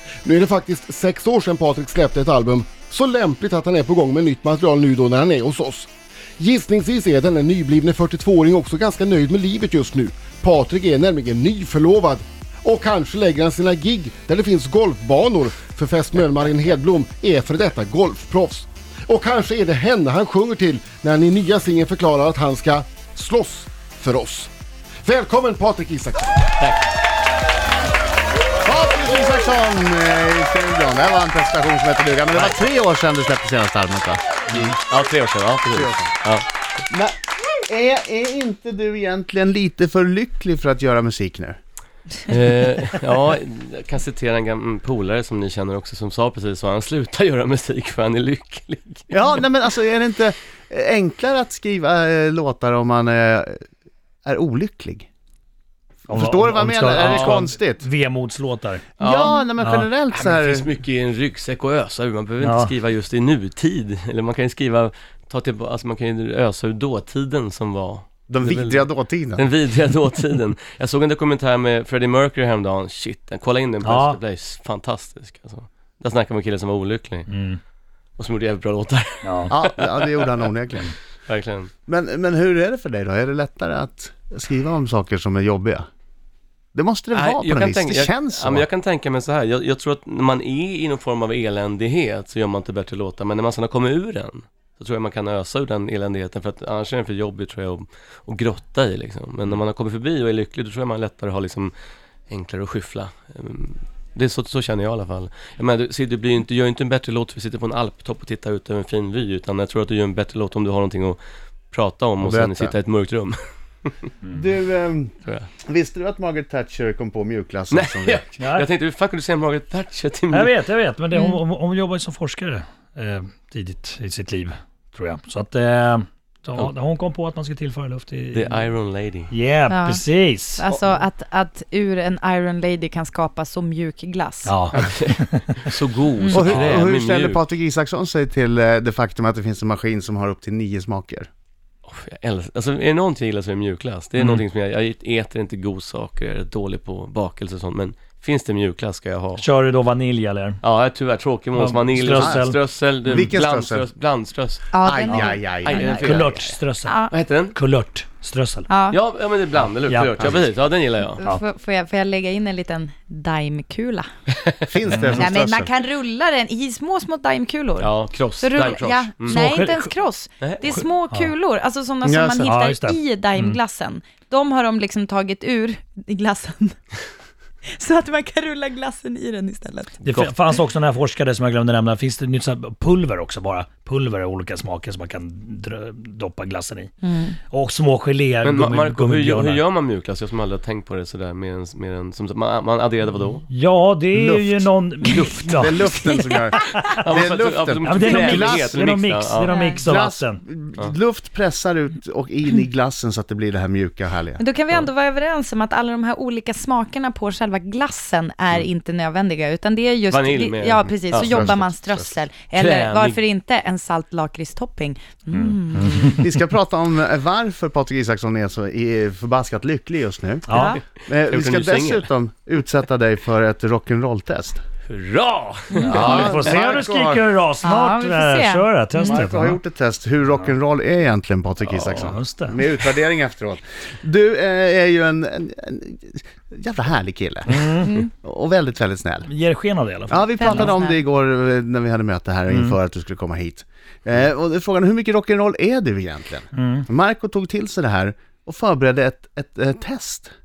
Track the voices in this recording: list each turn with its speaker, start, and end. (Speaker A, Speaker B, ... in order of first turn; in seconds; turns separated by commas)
Speaker A: 0.2-24.5, Speaker A: 25.0-26.4, Speaker B: 26.6-27.0, Speaker C: 28.6-34.7, Speaker B: 32.3-32.6, Speaker B: 34.5-36.4, Speaker C: 35.7-36.1, Speaker C: 36.9-37.1, Speaker C: 37.7-41.6, Speaker B: 42.3-49.4, Speaker C: 49.1-53.6, Speaker C: 54.2-55.1, Speaker C: 56.1-57.9, Speaker D: 56.1-58.8, Speaker B: 57.0-57.4, Speaker B: 59.0-59.4, Speaker C: 59.0-60.7, Speaker D: 59.6-59.9, Speaker B: 60.1-77.3, Speaker D: 62.4-62.7, Speaker C: 68.3-69.5, Speaker D: 73.8-74.2, Speaker D: 77.3-77.6, Speaker B: 78.2-80.2, Speaker D: 79.2-79.5, Speaker C: 79.5-80.9, Speaker B: 81.3-81.7, Speaker C: 81.9-85.8, Speaker C: 86.7-88.7, Speaker B: 87.1-101.7, Speaker B: 102.3-111.2, Speaker B: 111.7-114.1, Speaker C: 112.2-112.7, Speaker C: 114.3-115.1, Speaker C: 115.7-118.2, Speaker B: 117.7-120.5, Speaker D: 118.4-118.7, Speaker D: 120.3-128.7, Speaker B: 128.3-129.3, Speaker D: 129.3-130.6, Speaker E: 129.7-134.6, Speaker D: 134.4-135.7, Speaker B: 134.7-137.4, Speaker E: 136.2-136.6, Speaker C: 136.3-141.3, Speaker B: 141.8-149.4, Speaker D: 144.2-144.4, Speaker D: 149.3-150.6, Speaker B: 150.6-154.7, Speaker D: 151.5-152.6, Speaker C: 152.1-152.5, Speaker C: 153.1-153.9, Speaker E: 154.7-156.2, Speaker C: 154.8-156.5, Speaker D: 155.1-157.0, Speaker B: 155.6-156.6, Speaker E: 156.8-157.2, Speaker B: 157.1-157.5, Speaker D: 157.5-158.7, Speaker E: 158.7-159.0, Speaker B: 158.9-161.2, Speaker D: 159.6-160.3, Speaker E: 161.1-164.1, Speaker C: 164.7-165.7, Speaker D: 164.9-165.3, Speaker E: 165.1-176.8, Speaker B: 167.8-169.6, Speaker D: 169.2-169.9, Speaker B: 170.4-170.8, Speaker C: 172.0-172.5, Speaker D: 172.4-173.6, Speaker E: 177.7-179.9, Speaker B: 180.0-180.3, Speaker D: 180.0-189.6, Speaker E: 187.0-187.3, Speaker B: 188.4-193.4, Speaker D: 193.5-196.9, Speaker C: 194.1-194.7, Speaker C: 195.4-198.7, Speaker B: 196.9-199.5, Speaker D: 197.8-200.4, Speaker E: 199.4-199.8, Speaker C: 199.8-204.4, Speaker E: 204.4-216.2, Speaker B: 210.1-211.6, Speaker C: 211.1-212.1, Speaker B: 212.5-213.2, Speaker D: 215.3-216.3, Speaker C: 216.0-224.6, Speaker D: 220.5-220.8, Speaker E: 220.5-220.8, Speaker B: 221.2-222.1, Speaker B: 224.9-226.6, Speaker E: 225.7-226.0, Speaker D: 225.8-229.6, Speaker C: 225.9-227.3, Speaker E: 227.6-229.2, Speaker C: 229.0-239.3, Speaker B: 231.7-232.1, Speaker D: 231.9-232.6, Speaker D: 237.4-237.9, Speaker E: 237.8-238.1, Speaker D: 239.2-240.7, Speaker C: 240.1-250.3, Speaker E: 240.4-241.0, Speaker D: 242.5-242.8, Speaker D: 246.5-246.9